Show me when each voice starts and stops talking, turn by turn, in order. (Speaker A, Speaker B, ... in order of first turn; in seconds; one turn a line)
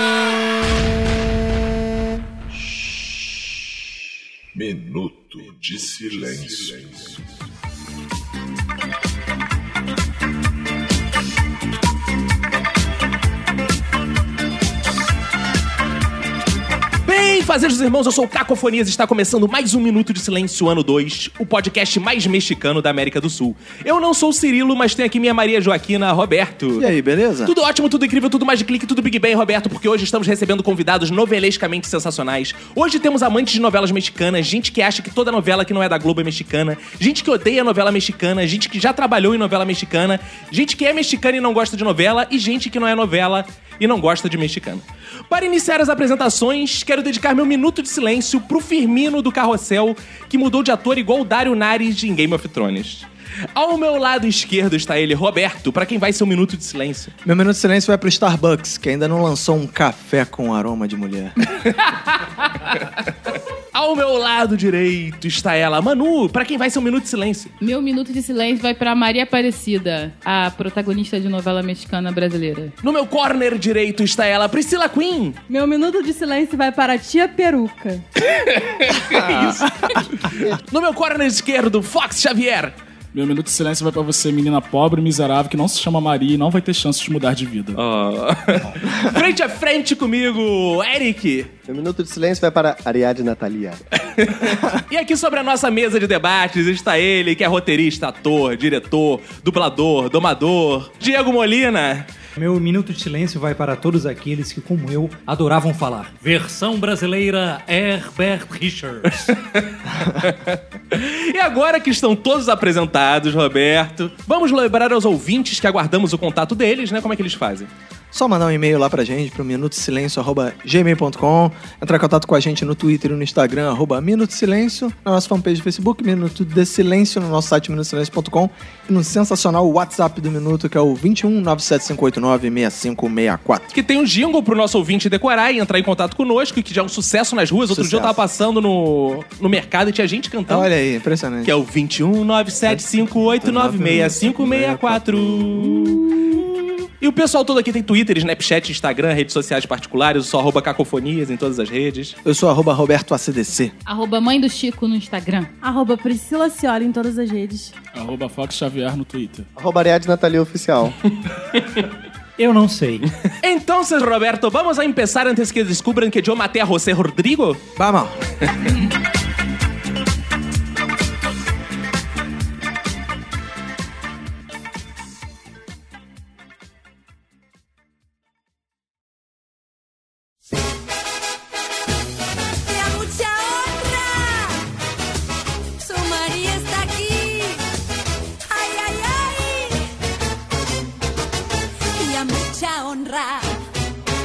Speaker A: 4.5-7.2
Speaker B: 17.1-26.9
Speaker C: 26.8-27.5
Speaker B: 27.4-57.1
Speaker C: 57.2-61.4
Speaker B: 61.5-61.9
Speaker B: 62.7-63.0
Speaker B: 63.7-67.5
Speaker D: 67.6-72.7
Speaker B: 72.8-75.4
Speaker E: 75.5-78.0
Speaker B: 78.3-82.7
Speaker C: 79.1-79.5
Speaker F: 83.1-87.8
Speaker B: 87.8-91.5
Speaker G: 91.7-93.8
Speaker B: 94.0-102.1
Speaker H: 102.3-109.3
Speaker B: 109.3-109.7
Speaker B: 110.2-117.7
Speaker C: 118.1-133.7
Speaker B: 133.7-140.7
Speaker C: 137.7-138.2
Speaker C: 140.5-141.5
Speaker B: 141.4-152.2
Speaker C: 142.6-146.0
Speaker C: 152.2-153.7
Speaker D: 153.8-155.5
Speaker E: 155.6-157.7
Speaker F: 157.9-159.5
Speaker G: 159.6-160.9
Speaker H: 162.4-163.1
Speaker B: 163.4-167.6
Speaker C: 167.8-168.2
Speaker I: 182.7-184.6
Speaker I: 185.8-187.6
Speaker I: 188.5-189.9
Speaker I: 192.0-193.6